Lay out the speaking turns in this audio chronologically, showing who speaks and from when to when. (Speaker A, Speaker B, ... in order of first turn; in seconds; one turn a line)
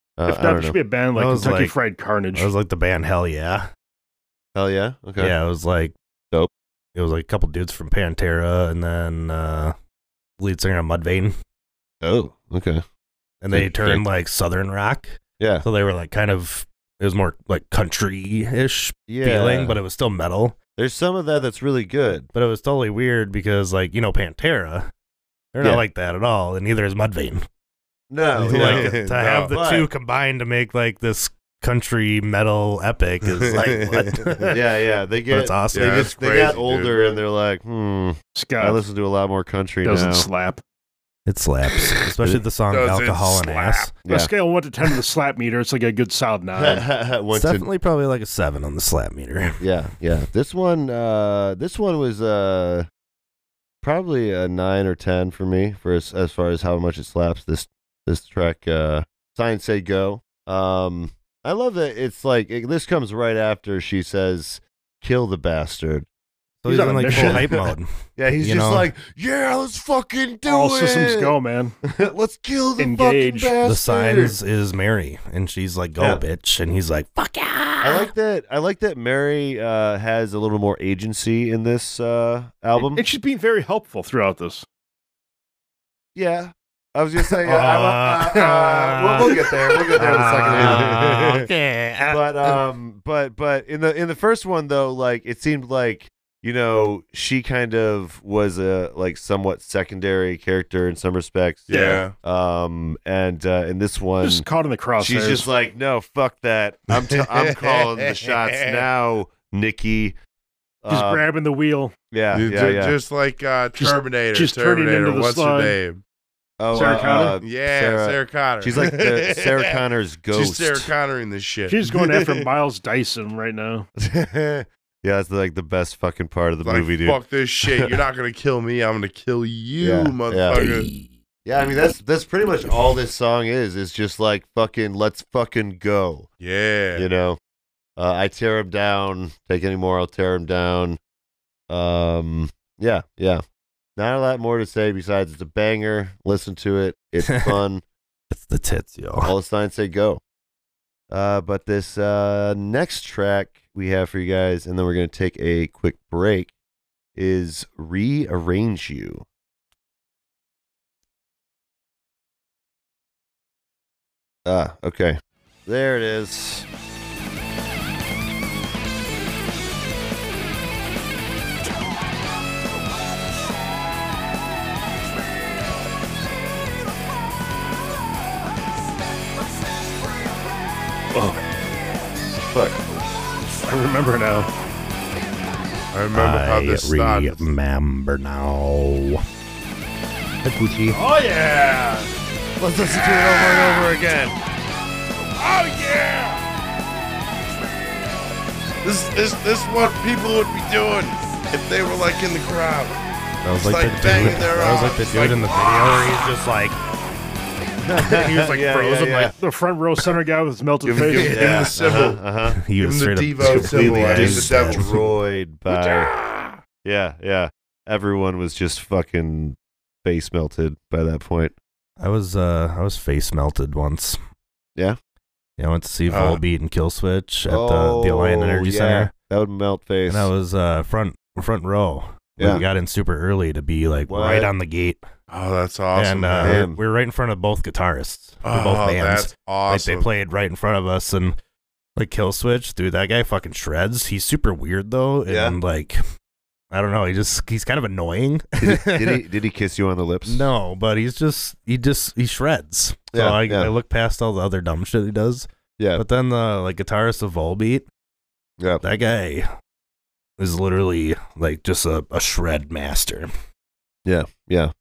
Speaker A: 0.2-1.7
Speaker B: 0.3-2.5
Speaker C: 1.2-1.8
Speaker C: 2.3-3.7
Speaker A: 4.5-5.3
Speaker C: 5.2-5.9
Speaker C: 7.0-9.8
Speaker C: 10.4-11.3
Speaker A: 12.0-12.8
Speaker C: 13.4-20.6
Speaker A: 13.5-14.1
Speaker A: 15.4-15.7
Speaker A: 19.1-19.8
Speaker A: 20.8-22.3
Speaker C: 22.3-24.9
Speaker C: 25.5-27.4
Speaker A: 28.1-29.0
Speaker C: 28.4-34.6
Speaker D: 28.5-29.6
Speaker A: 29.5-29.9
Speaker D: 33.4-34.4
Speaker A: 34.5-40.3
Speaker C: 35.3-36.0
Speaker D: 35.7-37.0
Speaker B: 38.4-38.8
Speaker B: 39.8-40.6
Speaker C: 41.3-43.9
Speaker D: 42.7-43.9
Speaker A: 44.1-44.3
Speaker B: 44.1-46.9
Speaker A: 46.5-47.7
Speaker C: 47.3-49.6
Speaker A: 49.6-52.9
Speaker A: 53.8-66.1
Speaker C: 66.6-68.9
Speaker B: 66.7-67.5
Speaker A: 66.9-67.6
Speaker A: 68.2-74.4
Speaker B: 70.5-71.8
Speaker B: 72.8-73.5
Speaker C: 73.7-78.1
Speaker A: 77.8-83.0
Speaker B: 82.8-84.7
Speaker A: 86.2-91.5
Speaker C: 87.3-92.2
Speaker A: 92.1-104.5
Speaker D: 101.7-102.2
Speaker B: 101.7-102.0
Speaker B: 104.2-105.5
Speaker A: 105.0-110.2
Speaker D: 106.9-108.9
Speaker A: 110.8-111.2
Speaker B: 110.9-111.9
Speaker A: 112.1-113.0
Speaker D: 112.3-116.0
Speaker B: 113.8-115.8
Speaker A: 116.6-120.9
Speaker B: 116.7-117.4
Speaker D: 117.4-119.8
Speaker D: 120.3-122.4
Speaker B: 121.7-123.9
Speaker A: 124.0-128.0
Speaker D: 126.6-130.9
Speaker A: 129.8-130.7
Speaker C: 130.5-131.2
Speaker A: 131.4-136.3
Speaker D: 136.4-137.1
Speaker A: 136.9-137.4
Speaker A: 138.0-141.0
Speaker A: 141.7-143.4
Speaker A: 144.0-147.8
Speaker C: 147.2-147.6
Speaker C: 148.3-149.3
Speaker A: 149.2-150.2
Speaker A: 151.1-156.5
Speaker A: 157.2-159.2
Speaker A: 164.5-166.7
Speaker B: 181.1-181.4
Speaker A: 182.5-182.8
Speaker B: 183.7-184.5
Speaker D: 185.9-187.5
Speaker C: 186.1-189.2
Speaker C: 190.4-191.0
Speaker B: 190.9-192.1
Speaker A: 192.6-194.4
Speaker D: 193.0-193.9
Speaker D: 195.2-196.4
Speaker D: 198.8-203.0
Speaker C: 203.4-206.8
Speaker D: 203.6-206.1
Speaker A: 207.8-209.3
Speaker B: 208.0-211.5
Speaker D: 210.8-212.2
Speaker A: 211.0-212.6
Speaker C: 212.6-214.9
Speaker D: 212.8-215.1
Speaker A: 213.4-216.1
Speaker D: 215.7-216.6
Speaker A: 216.8-221.6
Speaker C: 222.0-224.2
Speaker C: 225.6-229.1
Speaker D: 226.1-226.4
Speaker A: 227.5-230.3
Speaker C: 230.1-235.0
Speaker A: 232.4-232.7
Speaker A: 234.1-234.5
Speaker D: 235.3-236.7
Speaker C: 235.9-241.4
Speaker A: 236.4-236.8
Speaker D: 238.4-240.1
Speaker C: 242.0-246.0
Speaker A: 245.3-245.6
Speaker C: 246.7-249.2
Speaker A: 248.6-250.5
Speaker C: 250.3-257.9
Speaker A: 253.1-253.7
Speaker A: 255.8-256.0
Speaker C: 258.8-259.5
Speaker C: 260.4-263.3
Speaker A: 264.1-264.7